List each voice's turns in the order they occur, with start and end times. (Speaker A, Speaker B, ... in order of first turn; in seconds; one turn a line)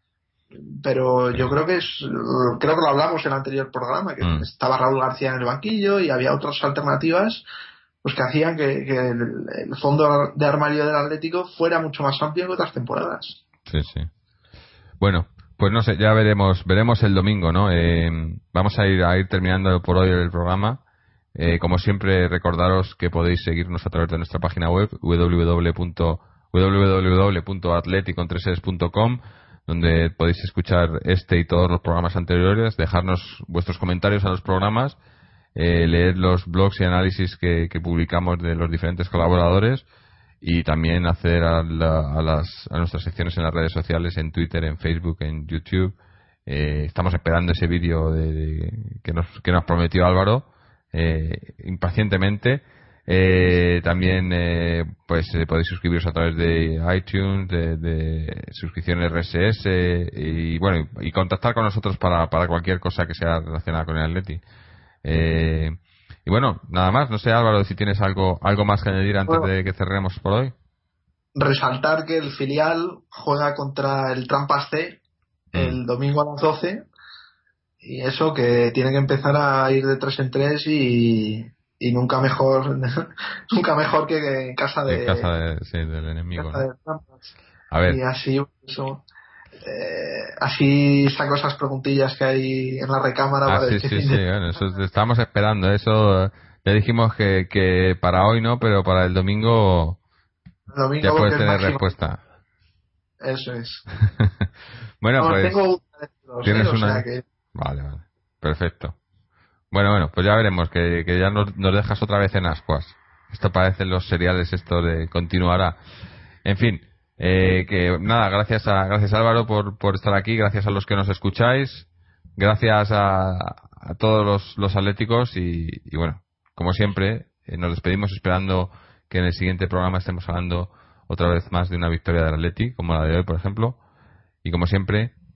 Speaker A: 0.5-7.4
Speaker B: 4.2-4.5
Speaker A: 8.0-13.4
Speaker B: 13.7-14.1
Speaker B: 15.0-20.8
Speaker B: 21.4-35.0
Speaker B: 35.5-39.8
Speaker B: 40.4-45.9
Speaker B: 46.5-64.4
Speaker B: 65.0-70.5
Speaker A: 71.3-75.0
Speaker B: 75.5-75.8
Speaker A: 75.5-76.8
Speaker A: 77.8-85.3
Speaker B: 84.9-86.6
Speaker A: 86.3-87.3
Speaker B: 87.7-88.0
Speaker A: 87.8-89.0
Speaker A: 89.6-94.2
Speaker B: 93.5-100.0
Speaker A: 100.7-102.0
Speaker B: 101.0-102.2
Speaker A: 103.2-103.8
Speaker B: 104.0-104.5
Speaker B: 105.0-105.6
Speaker A: 105.2-107.2
Speaker B: 106.4-108.9
Speaker B: 109.7-115.8
Speaker B: 116.4-133.8
Speaker B: 134.4-135.1